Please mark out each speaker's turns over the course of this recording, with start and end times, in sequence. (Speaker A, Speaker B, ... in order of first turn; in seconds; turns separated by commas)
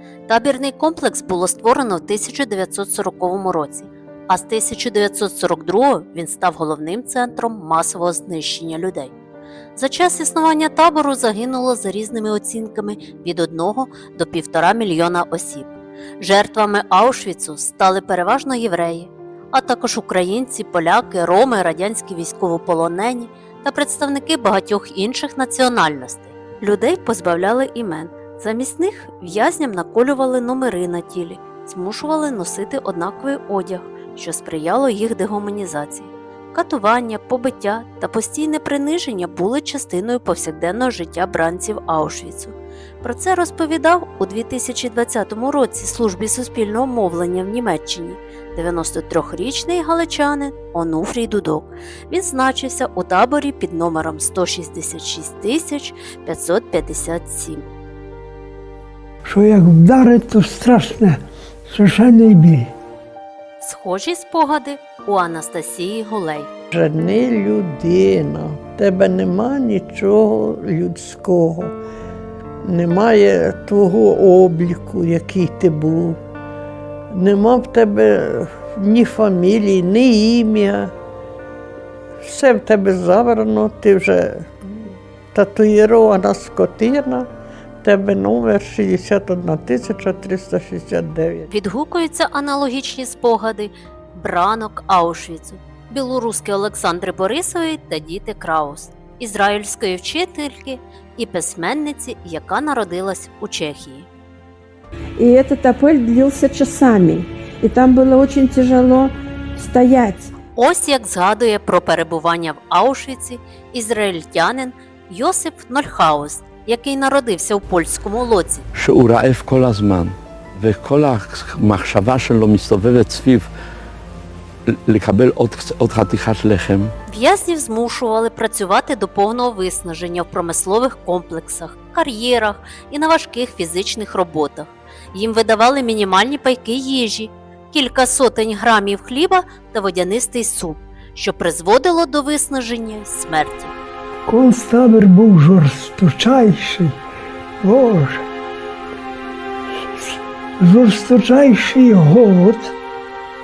Speaker A: 0.3-9.1, Speaker A: 9.8-57.7, Speaker B: 59.3-62.7, Speaker A: 63.6-66.5, Speaker C: 66.7-71.7, Speaker C: 72.7-76.2, Speaker C: 77.1-80.9, Speaker C: 82.3-84.5, Speaker C: 85.3-87.2, Speaker C: 87.8-91.5, Speaker A: 91.5-104.1, Speaker D: 105.2-110.3, Speaker A: 110.5-118.7, Speaker E: 118.8-123.5, Speaker E: 124.7-126.9, Speaker A: 127.1-143.7, Speaker B: 144.3-146.9, Speaker B: 147.6-148.2, Speaker B: 150.0-152.7